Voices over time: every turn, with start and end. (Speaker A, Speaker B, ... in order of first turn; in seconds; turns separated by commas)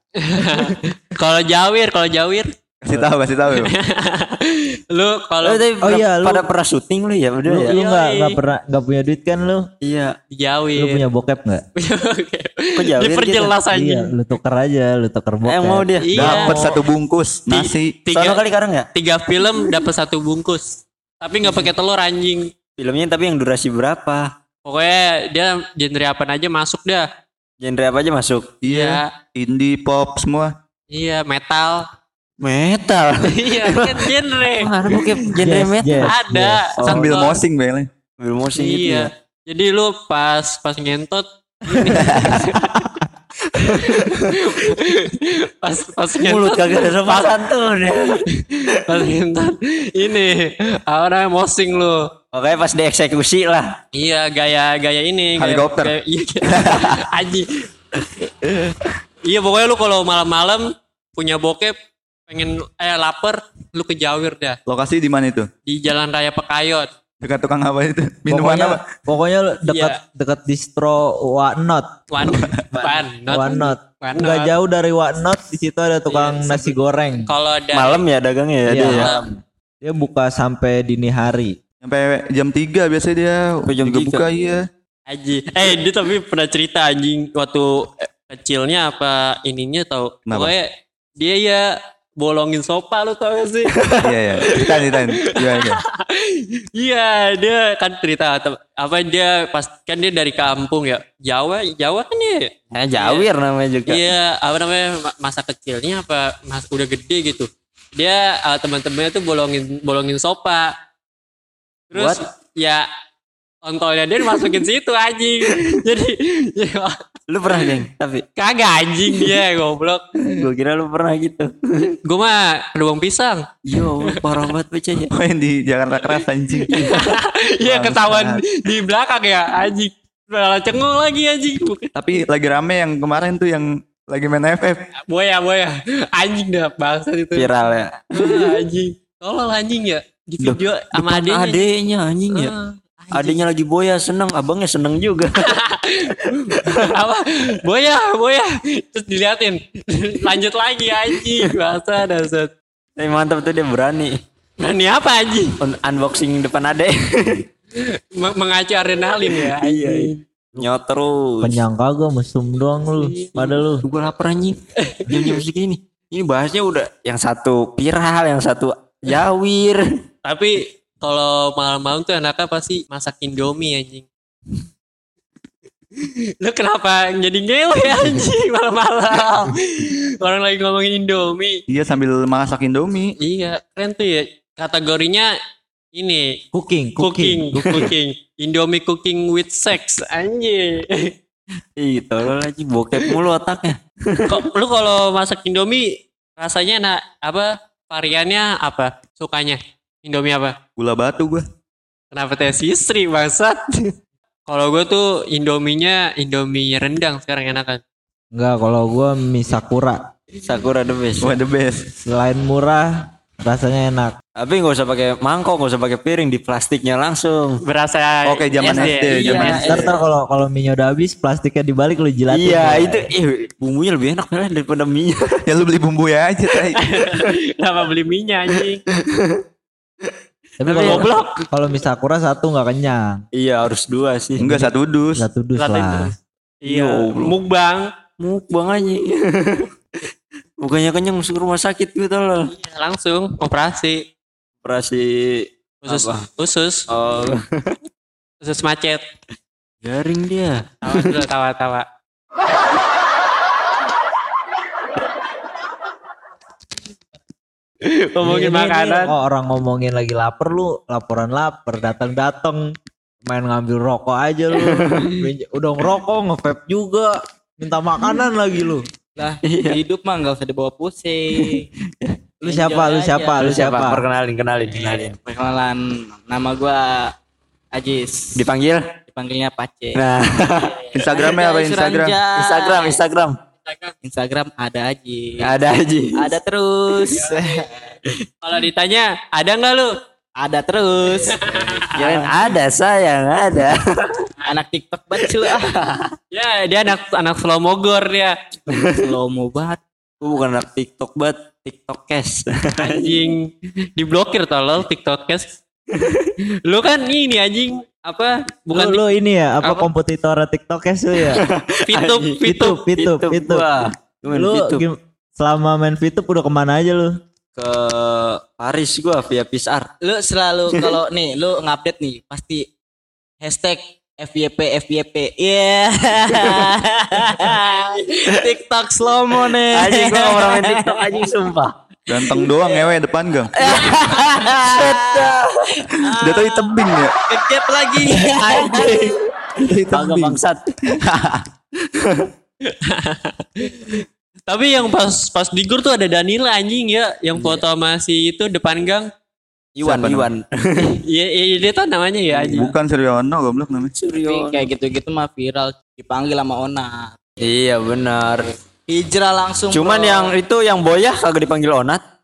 Speaker A: 0.2-2.5, Speaker B: 2.8-3.7, Speaker A: 3.5-5.7, Speaker C: 5.4-7.8, Speaker D: 5.8-6.5, Speaker D: 7.5-9.7, Speaker A: 7.6-8.4, Speaker C: 9.8-10.2, Speaker A: 10.3-11.0, Speaker D: 10.8-11.6, Speaker A: 11.8-14.1, Speaker C: 12.8-13.5, Speaker D: 13.6-15.9, Speaker C: 15.4-16.5, Speaker A: 16.0-16.8, Speaker B: 16.1-18.0, Speaker A: 17.5-18.4, Speaker C: 18.1-18.9, Speaker A: 18.9-22.5, Speaker C: 22.8-24.3, Speaker A: 24.6-27.1, Speaker C: 27.6-28.5, Speaker B: 28.6-30.5, Speaker A: 28.6-29.1, Speaker A: 30.9-31.8, Speaker C: 32.4-36.1, Speaker A: 33.2-35.2, Speaker D: 35.4-36.7, Speaker A: 36.0-37.4, Speaker C: 36.8-37.2, Speaker B: 36.8-37.9, Speaker C: 38.2-39.1, Speaker A: 38.6-42.9, Speaker B: 42.0-42.4, Speaker A: 43.5-47.3, Speaker C: 43.6-44.4, Speaker C: 46.2-49.0, Speaker A: 48.2-52.1, Speaker C: 52.3-53.8, Speaker A: 53.9-57.7, Speaker B: 55.4-56.0, Speaker B: 56.5-57.1, Speaker A: 59.2-61.7, Speaker A: 62.3-64.6, Speaker B: 64.7-65.5, Speaker A: 65.7-66.9, Speaker B: 67.2-68.8, Speaker D: 68.3-71.9, Speaker A: 69.6-70.0, Speaker A: 72.1-74.5, Speaker B: 72.3-72.6, Speaker D: 73.3-77.3, Speaker A: 76.1-76.7, Speaker A: 77.2-78.0, Speaker C: 77.7-79.3, Speaker D: 78.7-79.1, Speaker A: 78.8-79.2, Speaker D: 79.8-81.6, Speaker B: 81.8-84.7, Speaker C: 83.7-84.3, Speaker A: 85.1-93.8, Speaker B: 94.0-95.8, Speaker A: 94.5-103.3, Speaker C: 102.7-104.0, Speaker A: 103.9-110.7, Speaker A: 111.9-112.9, Speaker C: 111.9-112.2, Speaker A: 113.6-117.0, Speaker C: 117.3-118.2, Speaker A: 118.4-120.5, Speaker C: 120.2-122.0, Speaker A: 122.0-123.5, Speaker C: 123.7-125.1, Speaker B: 125.1-128.4, Speaker A: 126.7-131.9, Speaker B: 131.9-134.8, Speaker A: 135.1-137.5, Speaker C: 137.3-138.6, Speaker A: 138.1-141.7, Speaker C: 140.4-142.5, Speaker A: 142.3-142.7, Speaker E: 143.0-143.4, Speaker C: 143.1-145.5, Speaker A: 145.4-152.5, Speaker C: 146.5-146.9, Speaker C: 153.0-154.2, Speaker A: 154.6-155.6, Speaker C: 155.6-157.4, Speaker A: 157.8-160.2, Speaker C: 159.3-161.6, Speaker D: 161.4-163.8, Speaker A: 162.9-163.4, Speaker C: 163.7-169.9, Speaker A: 164.8-165.4, Speaker A: 170.2-174.1, Speaker A: 176.0-181.6, Speaker B: 181.7-183.1, Speaker A: 183.2-185.3, Speaker A: 185.9-186.3, Speaker D: 186.5-187.8, Speaker A: 187.0-191.1, Speaker C: 191.8-194.4, Speaker A: 194.3-200.6, Speaker B: 200.8-201.4, Speaker A: 202.1-203.9, Speaker A: 204.4-207.8, Speaker D: 208.3-210.0, Speaker C: 210.4-211.4, Speaker B: 211.2-211.9, Speaker D: 212.1-214.2, Speaker C: 214.3-217.6, Speaker A: 217.6-219.9, Speaker B: 218.2-219.8, Speaker C: 218.6-219.9, Speaker D: 219.6-223.1, Speaker C: 222.3-225.4, Speaker B: 225.5-226.8, Speaker A: 226.8-228.8, Speaker C: 228.9-229.4, Speaker D: 230.6-233.2, Speaker C: 230.6-231.4, Speaker A: 230.7-231.4, Speaker C: 233.3-234.6, Speaker B: 234.4-235.2, Speaker D: 234.4-236.1, Speaker A: 235.6-237.9, Speaker C: 236.6-237.4, Speaker C: 238.2-240.1, Speaker C: 240.6-242.5, Speaker A: 242.5-244.0, Speaker C: 244.6-246.2, Speaker A: 245.8-246.9, Speaker C: 246.9-247.8, Speaker A: 248.4-249.0, Speaker C: 249.8-251.2, Speaker A: 250.8-251.8, Speaker A: 257.8-259.1, Speaker D: 258.2-268.9, Speaker C: 264.6-265.1, Speaker E: 269.2-271.7, Speaker C: 269.4-269.8, Speaker C: 271.4-272.1, Speaker E: 272.4-273.5, Speaker D: 272.4-274.0, Speaker C: 273.4-275.2, Speaker E: 274.8-277.1, Speaker E: 277.7-278.5, Speaker C: 278.4-278.9, Speaker E: 279.1-280.0, Speaker C: 279.9-280.8, Speaker B: 280.9-282.2, Speaker E: 281.1-283.0, Speaker C: 282.3-283.4, Speaker A: 283.7-283.9, Speaker E: 284.0-285.6, Speaker C: 285.4-286.3, Speaker E: 286.1-287.7, Speaker A: 288.4-289.9, Speaker E: 290.4-291.8, Speaker A: 291.3-292.2, Speaker C: 291.9-294.3, Speaker E: 294.4-295.7, Speaker C: 295.5-296.1, Speaker A: 296.3-298.4, Speaker C: 298.7-299.1, Speaker E: 298.7-299.8, Speaker C: 300.2-303.3, Speaker A: 302.8-305.6, Speaker C: 305.9-306.3, Speaker A: 306.6-309.0, Speaker D: 308.7-311.4, Speaker A: 309.6-309.9, Speaker C: 311.2-314.8, Speaker A: 311.9-312.8, Speaker D: 312.4-313.7, Speaker D: 314.3-317.1, Speaker C: 317.6-319.9, Speaker E: 320.0-322.6, Speaker E: 323.4-331.1, Speaker C: 329.5-331.7, Speaker B: 332.1-333.8, Speaker E: 332.2-332.8, Speaker E: 333.5-335.4, Speaker C: 334.5-335.9, Speaker E: 335.9-339.1, Speaker B: 336.1-337.2, Speaker C: 338.2-339.2, Speaker B: 339.6-341.4, Speaker C: 339.9-340.7, Speaker C: 341.9-342.3, Speaker A: 342.7-349.1, Speaker C: 347.3-347.6, Speaker C: 349.8-351.0, Speaker B: 349.8-350.3, Speaker A: 350.8-352.7, Speaker C: 352.3-352.7, Speaker B: 352.4-353.9, Speaker C: 353.9-354.7, Speaker E: 354.2-357.4, Speaker C: 357.4-358.5, Speaker E: 358.9-360.3, Speaker C: 359.7-362.0